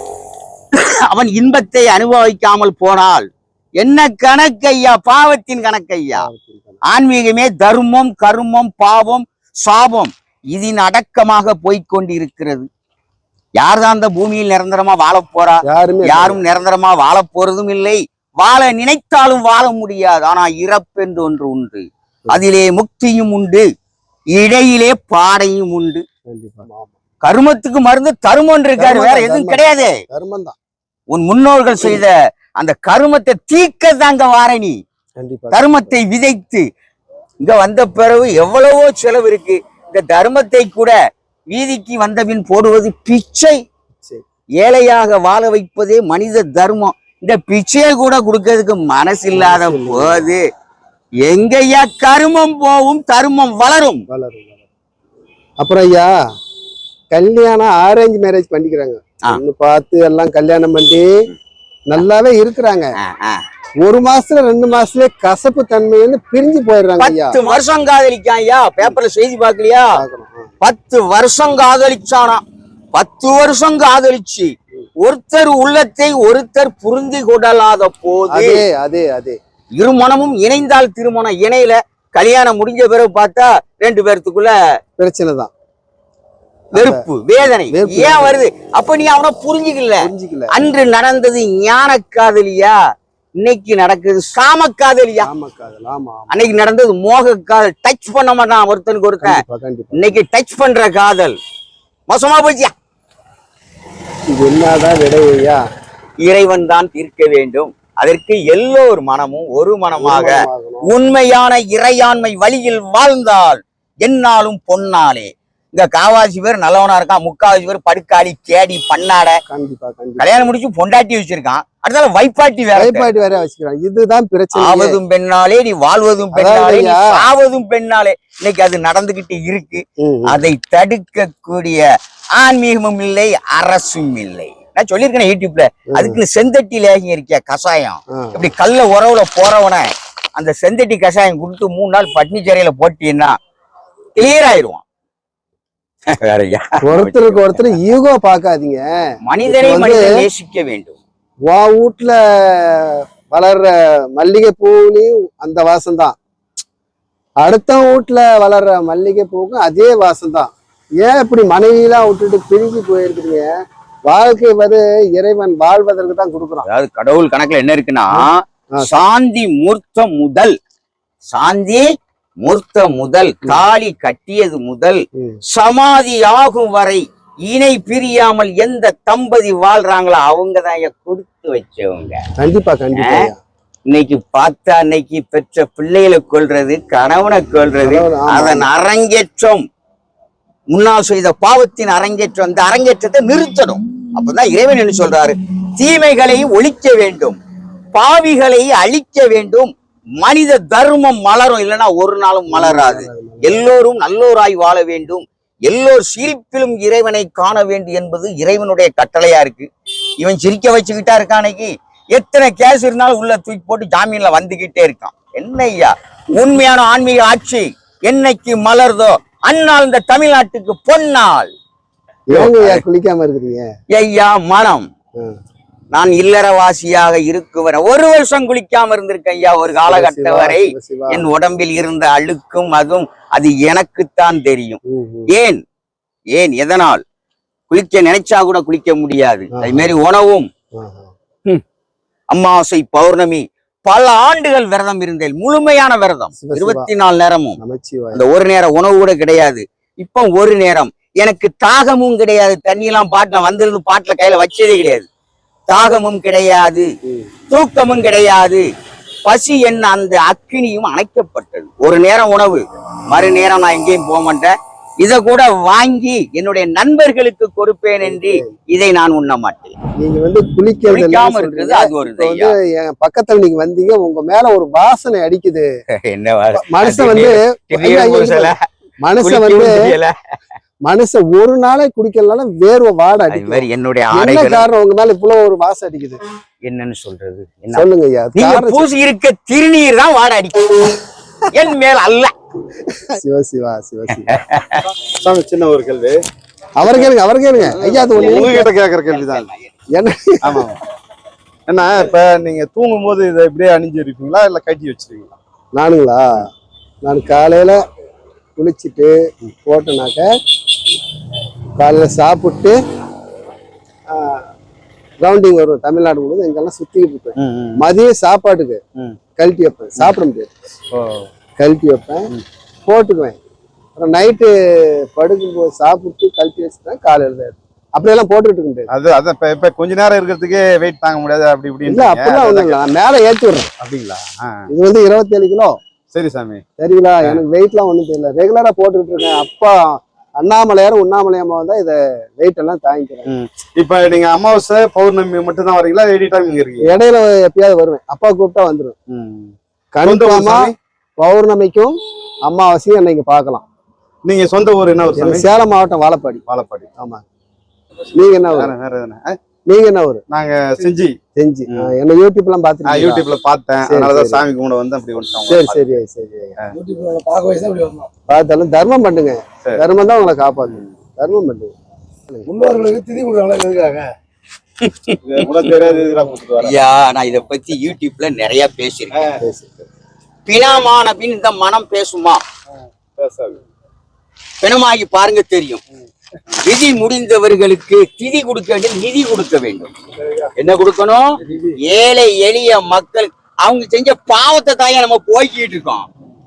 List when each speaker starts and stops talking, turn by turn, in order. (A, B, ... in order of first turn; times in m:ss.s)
0:00.7-0:03.3 A
0:03.8-0:06.3 A
0:06.2-0:06.8 B
0:06.8-0:12.7 A
0:13.6-0:23.7 A
0:15.7-0:16.4 B
0:24.3-0:26.0 A
0:26.3-0:26.9 B
0:27.2-0:30.0 A
0:28.8-0:30.6 B
0:31.1-0:34.8 A
0:35.2-0:36.0 B
0:35.5-0:36.7 A
0:37.4-0:41.0 A
0:41.5-0:43.6 A
0:44.6-0:50.4 A
0:49.3-0:50.3 B
0:51.2-0:54.0 A
0:54.1-0:54.6 B
0:55.6-0:56.2 B
0:57.1-1:01.1 B
1:01.9-1:02.9 B
1:03.0-1:03.4 A
1:03.8-1:07.4 B
1:07.0-1:10.0 A
1:10.0-1:10.5 B
1:10.6-1:12.4 A
1:13.0-1:14.5 A
1:15.0-1:18.6 A
1:18.3-1:19.4 B
1:19.8-1:24.6 A
1:25.0-1:25.5 B
1:26.7-1:27.0 B
1:26.7-1:32.8 A
1:27.6-1:28.4 B
1:30.0-1:30.7 B
1:33.4-1:35.3 A
1:35.2-1:36.4 B
1:36.3-1:39.4 A
1:39.2-1:40.1 B
1:39.9-1:41.4 A
1:42.1-1:42.7 A
1:44.3-1:45.6 B
1:46.2-1:59.4 A
1:50.0-1:50.9 B
1:59.5-2:00.3 B
2:00.2-2:03.1 A
2:02.8-2:05.0 B
2:04.6-2:11.8 A
2:06.3-2:07.3 B
2:10.0-2:10.4 B
2:12.4-2:23.4 A
2:15.9-2:16.2 B
2:18.1-2:18.4 B
2:24.2-2:24.8 A
2:26.1-2:27.8 A
2:26.8-2:30.2 B
2:29.3-2:31.0 A
2:31.5-2:36.2 B
2:37.4-2:43.5 B
2:44.1-2:46.7 B
2:46.7-2:50.6 A
2:48.2-2:48.9 B
2:51.3-2:51.8 A
2:52.4-3:02.2 A
2:55.2-2:55.4 B
3:02.4-3:03.4 B
3:03.0-3:03.3 A
3:03.9-3:09.6 A
3:07.8-3:08.7 B
3:10.7-3:17.4 A
3:17.9-3:29.7 A
3:22.5-3:23.7 B
3:30.2-3:41.5 A
3:42.3-3:43.7 B
3:42.3-3:42.8 A
3:43.9-3:44.9 A
3:45.9-3:55.6 A
3:49.9-3:51.2 B
3:54.9-3:55.3 B
3:56.3-3:57.0 A
3:57.7-4:00.5 A
3:59.6-3:59.9 B
4:00.7-4:01.1 B
4:02.3-4:07.6 A
4:06.4-4:06.9 B
4:07.6-4:08.2 B
4:08.1-4:15.1 A
4:15.7-4:16.9 A
4:17.0-4:17.3 B
4:17.5-4:18.7 A
4:19.3-4:29.7 A
4:28.0-4:28.5 B
4:30.0-4:35.7 B
4:30.9-4:32.6 A
4:35.9-4:38.6 A
4:36.6-4:39.9 B
4:39.2-4:40.2 A
4:40.8-4:46.2 B
4:43.3-4:44.7 A
4:46.6-4:52.3 A
4:47.7-4:48.8 B
4:52.9-4:54.4 B
4:54.2-4:54.8 A
4:55.2-4:56.2 C
4:56.8-4:58.7 B
4:57.7-4:59.7 A
4:58.0-4:59.5 C
4:59.9-5:00.7 B
5:00.4-5:00.8 C
5:01.7-5:05.4 C
5:05.7-5:06.5 B
5:07.0-5:07.8 B
5:08.6-5:10.3 B
5:11.8-5:12.8 B
5:14.1-5:14.5 B
5:15.2-5:18.8 B
5:17.4-5:17.8 C
5:19.4-5:20.5 B
5:20.9-5:21.3 C
5:21.6-5:22.3 B
5:22.9-5:23.4 B
5:24.0-5:28.9 B
5:28.9-5:32.8 C
5:31.9-5:33.7 B
5:33.8-5:34.7 C
5:34.7-5:35.8 B
5:36.1-5:36.6 C
5:36.8-5:43.3 B
5:43.3-5:46.9 C
5:46.8-5:49.0 B
5:49.1-5:50.8 C
5:49.9-5:53.6 B
5:54.3-5:55.6 C
5:55.2-5:56.4 B
5:56.5-5:56.9 C
5:57.0-5:57.2 B
5:58.1-5:58.7 B
5:58.5-5:59.4 C
5:59.7-6:00.2 B
6:00.3-6:01.2 C
6:01.4-6:03.3 B
6:02.8-6:05.8 C
6:03.8-6:04.4 B
6:05.5-6:06.6 B
6:06.8-6:08.1 D
6:08.3-6:11.7 B
6:12.5-6:14.1 D
6:14.8-6:15.4 A
6:15.2-6:16.8 C
6:16.6-6:19.2 A
6:19.2-6:19.4 C
6:19.4-6:19.9 B
6:20.5-6:22.4 A
6:23.2-6:23.6 C
6:24.6-6:25.8 A
6:26.6-6:29.9 A
6:30.6-6:36.1 A